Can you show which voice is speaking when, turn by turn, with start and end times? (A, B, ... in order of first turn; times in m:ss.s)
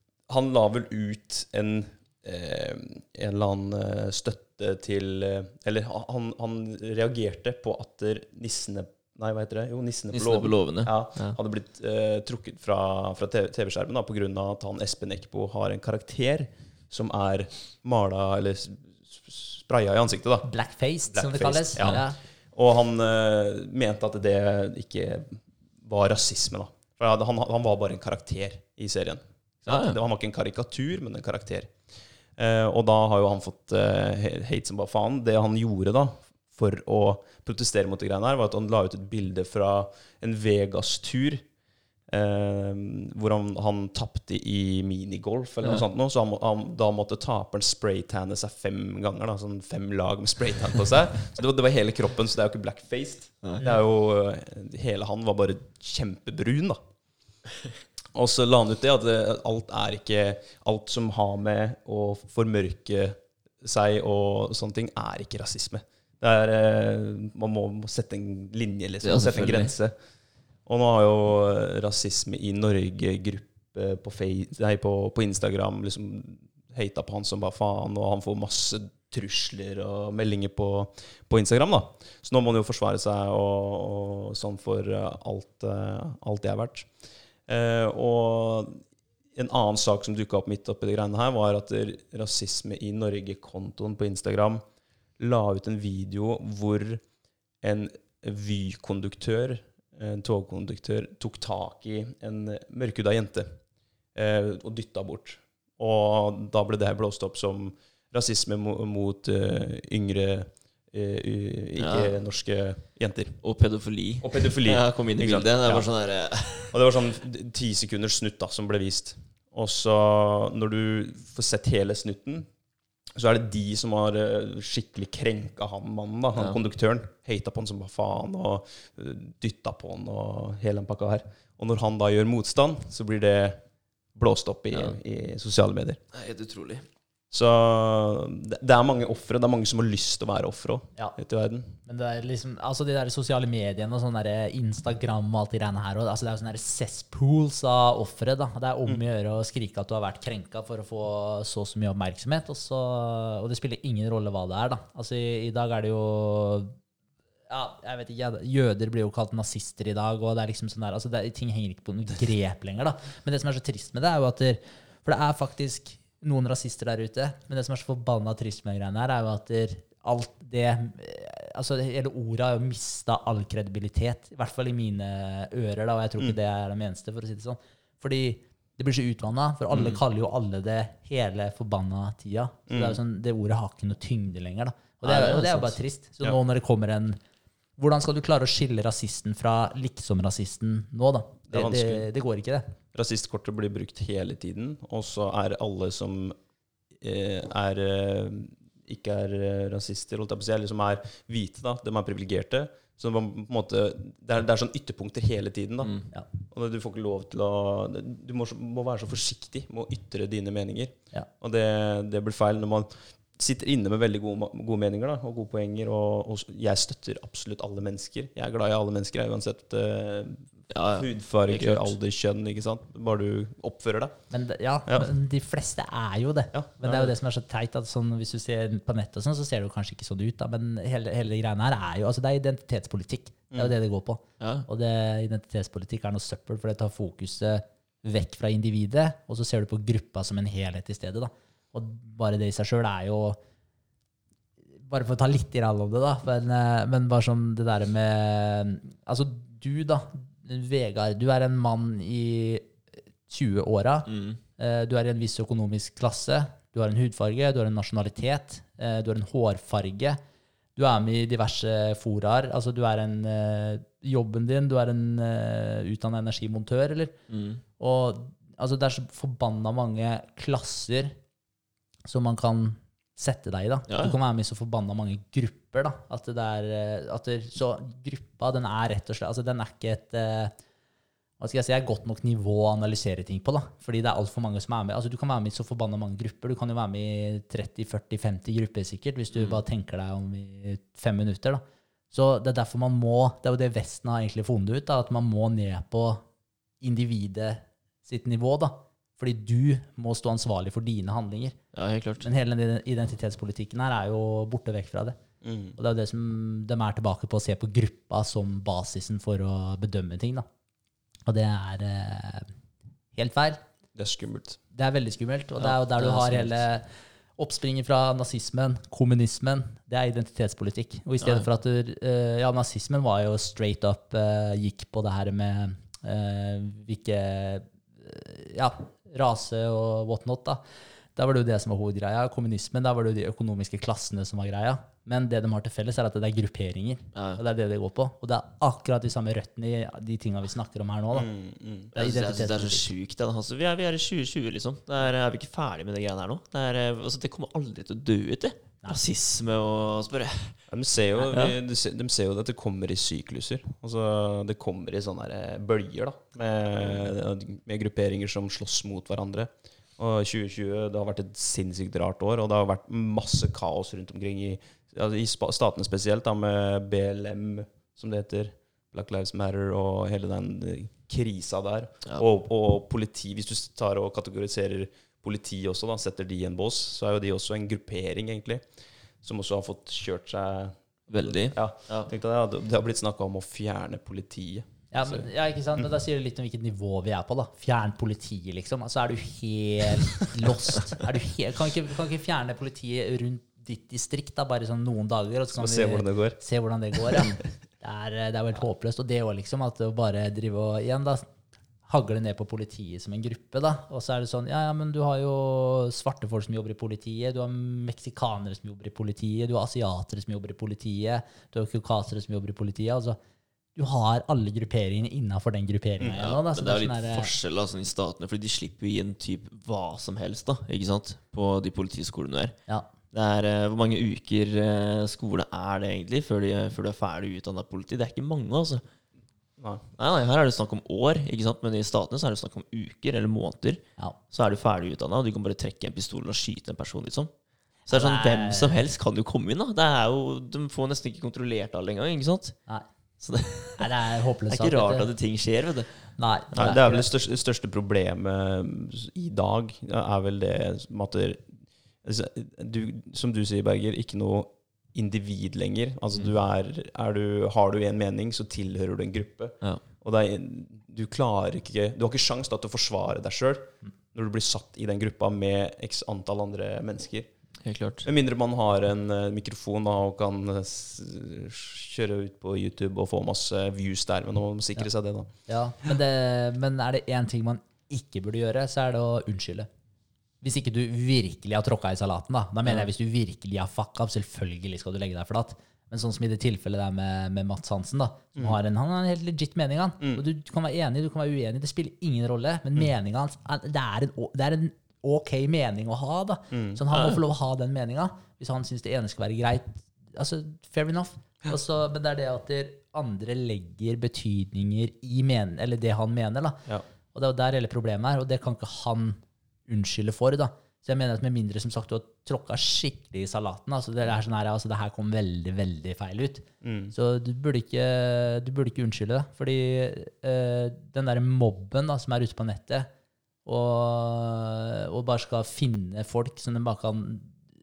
0:00.3-0:20.5 A
0:10.1-0:11.4 B
0:20.4-0:22.2 C
0:21.1-0:31.7 A
0:29.7-0:30.0 B
0:32.4-0:41.4 A
0:42.1-0:56.8 A
0:58.1-1:10.0 A
1:09.0-1:09.7 B
1:10.7-1:26.9 A
1:27.5-1:28.8 A
1:29.4-1:34.6 A
1:35.2-1:37.0 A
1:37.6-1:43.6 A
1:44.2-1:53.4 A
1:51.8-1:52.2 B
1:53.4-1:56.8 B
1:54.2-1:55.9 A
1:56.7-2:02.5 A
2:03.2-2:13.6 A
2:14.2-2:16.0 A
2:16.1-2:16.8 B
2:17.3-2:21.8 A
2:21.8-2:36.8 C
2:37.5-3:07.2 C
2:59.7-3:00.0 B
3:02.7-3:03.0 A
3:05.0-3:05.8 B
3:07.8-3:12.8 C
3:11.5-3:12.1 A
3:12.9-3:16.4 A
3:17.0-3:44.2 A
3:40.7-3:41.9 B
3:44.3-4:03.4 C
3:46.5-3:47.1 A
3:54.4-3:54.7 B
4:04.9-4:20.2 C
4:14.1-4:14.4 B
4:20.8-4:27.2 C
4:27.3-4:27.6 B
4:27.8-4:31.2 C
4:32.1-4:40.5 C
4:33.9-4:34.2 B
4:41.4-4:56.2 C
4:49.3-4:49.6 B
4:56.8-5:01.6 C
5:01.7-5:02.3 B
5:02.2-5:05.2 C
5:05.4-5:05.8 A
5:05.8-5:10.5 C
5:11.3-5:12.5 C
5:13.2-5:13.6 C
5:14.0-5:14.6 A
5:14.7-5:30.6 C
5:15.6-5:16.6 B
5:31.2-5:41.3 C
5:37.2-5:37.4 B
5:41.1-5:41.9 A
5:42.0-5:42.9 C
5:42.0-5:50.6 B
5:50.7-6:18.6 A
5:51.3-5:51.6 B
6:19.2-6:25.3 A
6:21.1-6:22.1 B
6:24.9-6:41.3 C
6:35.6-6:36.4 A
6:41.9-6:53.2 C
6:53.8-6:57.3 C
6:56.2-7:02.6 B
7:03.1-7:08.8 B
7:09.6-7:09.9 A
7:10.0-7:13.8 B
7:14.3-7:17.3 B
7:17.9-7:18.8 C
7:17.9-7:22.6 B
7:23.2-7:23.9 B
7:23.8-7:25.1 C
7:24.5-7:26.8 B
7:26.2-7:27.1 C
7:26.6-7:47.3 A
7:47.6-7:48.1 B
7:48.0-7:55.3 A
7:55.5-7:59.7 C
8:00.4-8:42.9 C
8:16.5-8:16.8 A
8:16.9-8:17.2 B
8:36.6-8:36.9 A
8:43.4-8:47.4 C